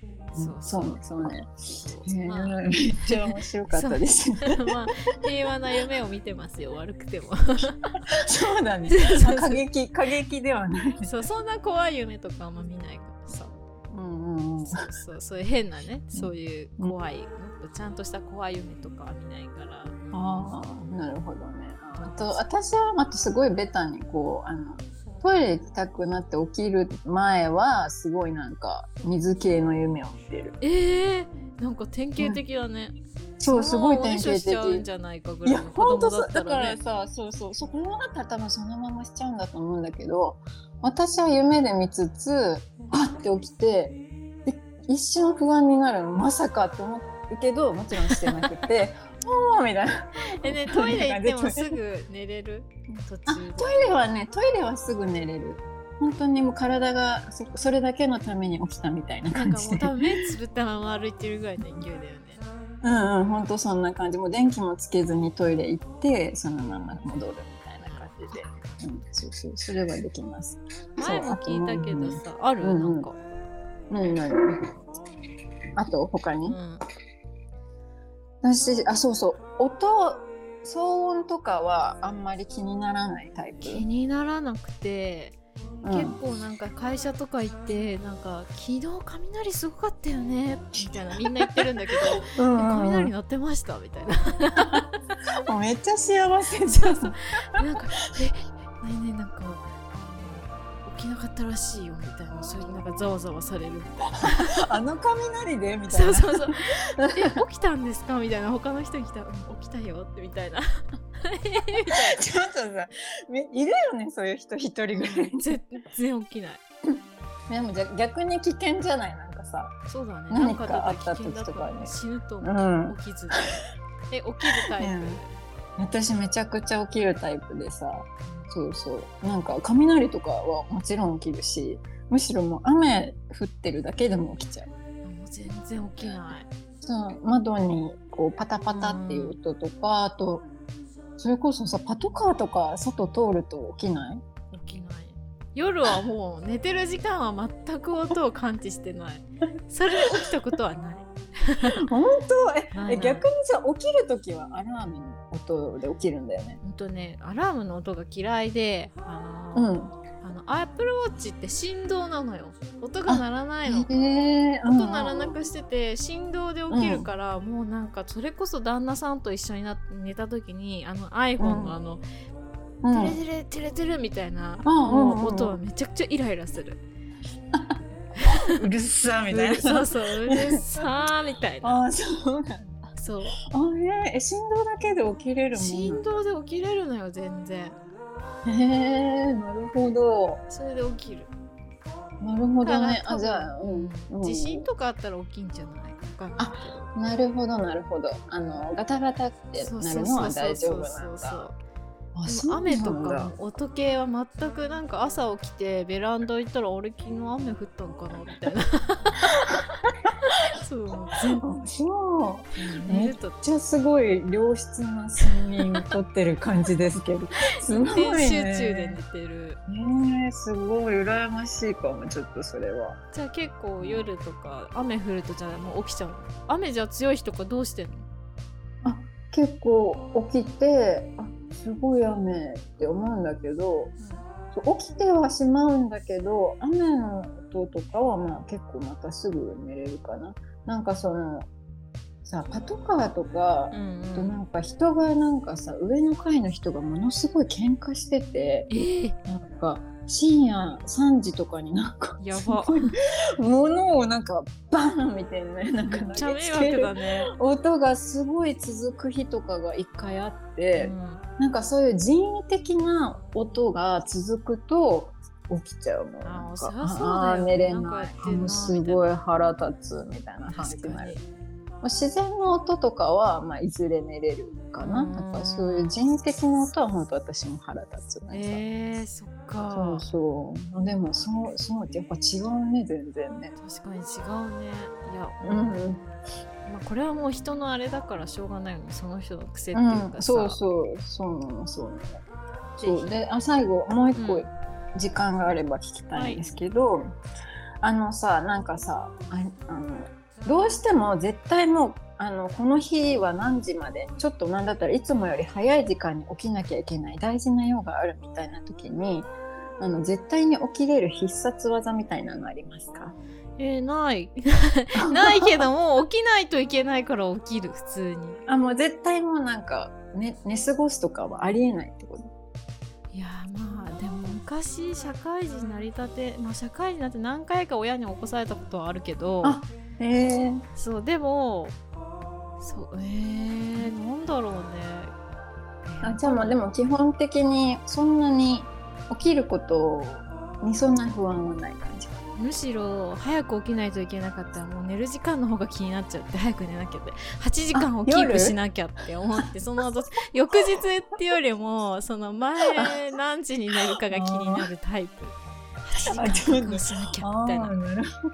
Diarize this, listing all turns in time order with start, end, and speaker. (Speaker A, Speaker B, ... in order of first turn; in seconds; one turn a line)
Speaker A: 0.3-1.0
Speaker B: 0.3-4.8
Speaker A: 1.7-8.0
Speaker B: 8.1-11.1
Speaker A: 8.9-9.6
Speaker A: 11.0-13.6
Speaker B: 13.9-14.8
Speaker A: 14.6-20.5
Speaker B: 16.1-16.9
Speaker B: 20.1-30.5
Speaker A: 21.9-22.4
Speaker A: 30.6-33.0
Speaker B: 33.4-34.8
Speaker A: 33.5-36.8
Speaker B: 35.4-51.8
Speaker A: 48.0-48.5
Speaker A: 50.2-53.9
Speaker B: 53.3-60.2
Speaker A: 59.3-62.4
Speaker B: 62.8-73.1
Speaker A: 67.8-68.8
Speaker A: 71.0-73.2
Speaker B: 73.9-74.7
Speaker B: 75.8-76.6
Speaker A: 76.5-76.8
Speaker B: 78.4-83.8
Speaker A: 83.6-94.8
Speaker B: 85.8-86.2
Speaker B: 90.8-93.1
Speaker B: 95.5-97.6
Speaker A: 96.7-104.6
Speaker B: 104.2-107.4
Speaker A: 105.9-112.2
Speaker B: 111.9-115.6
Speaker A: 115.0-116.6
Speaker B: 116.9-119.7
Speaker A: 119.9-125.3
Speaker B: 120.3-123.5
Speaker B: 124.5-125.2
Speaker B: 125.8-134.7
Speaker A: 135.0-136.5
Speaker B: 136.8-140.5
Speaker A: 138.7-139.4
Speaker B: 141.2-144.2
Speaker A: 144.5-151.8
Speaker B: 151.7-156.6
Speaker A: 152.7-153.2
Speaker A: 156.6-163.9
Speaker B: 159.5-160.0
Speaker B: 163.1-165.3
Speaker A: 164.6-172.0
Speaker B: 166.7-167.1
Speaker B: 171.4-171.8
Speaker B: 172.8-173.2
Speaker A: 172.9-176.8
Speaker B: 174.6-175.6
Speaker B: 177.5-180.6
Speaker A: 178.2-178.5
Speaker A: 179.3-181.8
Speaker B: 181.6-182.8
Speaker A: 182.9-183.4
Speaker B: 183.4-186.0
Speaker A: 185.5-187.8
Speaker B: 188.4-190.4
Speaker A: 190.5-191.3
Speaker B: 192.2-194.7
Speaker A: 192.6-196.9
Speaker B: 196.4-201.4
Speaker A: 199.6-201.6
Speaker B: 202.1-203.3
Speaker A: 202.2-209.4
Speaker B: 209.4-209.9
Speaker A: 210.2-211.4
Speaker B: 211.4-219.0
Speaker A: 212.5-213.4
Speaker A: 215.2-215.9
Speaker A: 217.6-219.6
Speaker B: 219.7-223.0
Speaker A: 223.1-228.1
Speaker B: 223.8-224.1
Speaker B: 228.8-233.9
Speaker B: 234.5-241.5
Speaker B: 242.2-248.7
Speaker A: 243.7-244.3
Speaker A: 248.7-249.2
Speaker B: 249.2-271.1
Speaker A: 252.2-253.0
Speaker A: 255.8-257.3
Speaker A: 260.8-261.2
Speaker A: 266.2-269.1
Speaker A: 270.5-271.2
Speaker B: 271.8-278.6
Speaker A: 274.8-276.0
Speaker A: 278.3-280.1
Speaker B: 279.7-283.6
Speaker A: 283.6-285.9
Speaker B: 285.4-286.0
Speaker A: 286.6-290.6
Speaker B: 289.7-292.2
Speaker A: 292.8-293.1
Speaker B: 292.8-297.1
Speaker A: 294.1-294.5
Speaker A: 296.1-296.4
Speaker B: 297.8-313.1
Speaker A: 313.6-318.4
Speaker B: 315.0-315.7
Speaker B: 318.5-322.3
Speaker A: 323.1-329.6
Speaker B: 329.4-330.6
Speaker A: 330.8-331.8
Speaker A: 332.6-335.1
Speaker A: 335.9-336.6
Speaker B: 336.0-342.2
Speaker A: 342.4-357.7
Speaker B: 347.7-348.6
Speaker B: 352.6-353.0
Speaker B: 353.9-354.7
Speaker B: 355.9-358.1